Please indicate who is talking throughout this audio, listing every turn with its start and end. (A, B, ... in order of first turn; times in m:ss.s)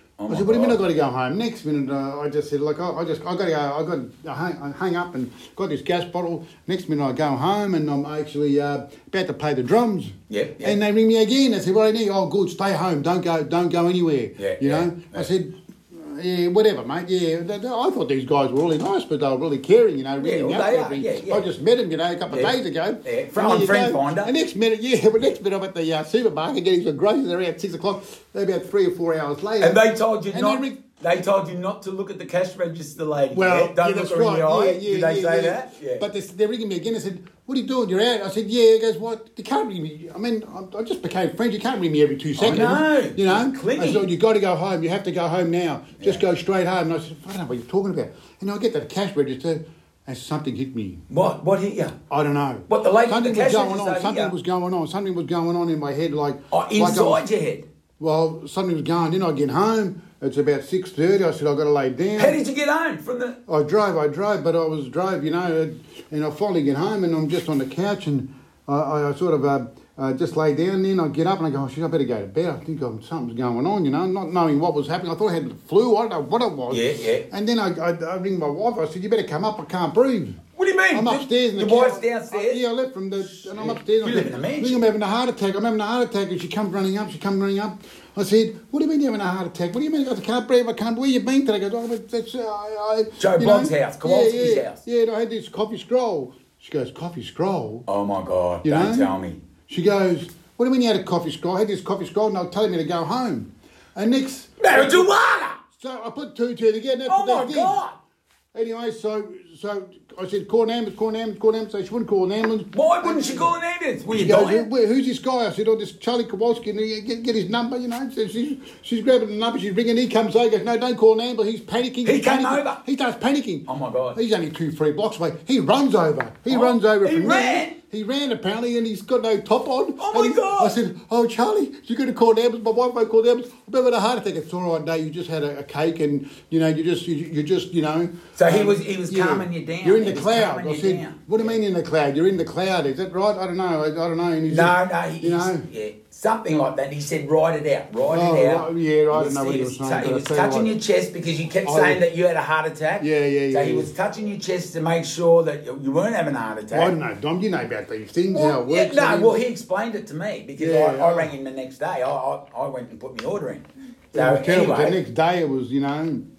0:00.2-0:00.8 A
0:00.3-0:29.8 B
0:10.3-0:10.8 A
0:14.4-0:15.3 A
0:20.2-0:21.5 A
0:22.3-0:24.3 A
0:29.6-0:36.0 A
0:30.3-0:30.8 B
0:33.3-0:51.0 B
0:42.4-0:44.1 A
0:51.1-0:51.9 A
0:52.1-0:57.2 B
0:52.7-0:54.3 A
0:56.5-0:57.6 A
0:58.0-1:02.4 B
1:02.2-1:03.4 A
1:03.5-1:20.4 B
1:16.7-1:17.2 A
1:20.6-1:22.6 A
1:20.9-1:37.8 B
1:23.3-1:24.8 A
1:33.2-1:34.8 A
1:37.9-1:39.4 A
1:38.6-1:39.1 B
1:39.7-1:45.0 B
1:44.6-1:45.6 A
1:45.8-1:47.8 B
1:47.1-1:47.9 A
1:48.5-1:53.5 B
1:52.7-1:54.7 A
1:54.1-2:25.6 B
2:02.0-2:02.8 A
2:03.7-2:04.2 A
2:06.5-2:07.8 A
2:10.0-2:10.8 A
2:18.4-2:21.5 A
2:24.4-2:36.9 A
2:28.1-2:30.7 B
2:31.6-2:32.0 B
2:33.0-2:33.9 B
2:36.7-2:39.4 B
2:38.3-2:45.0 A
2:40.6-2:41.3 B
2:44.1-2:46.2 B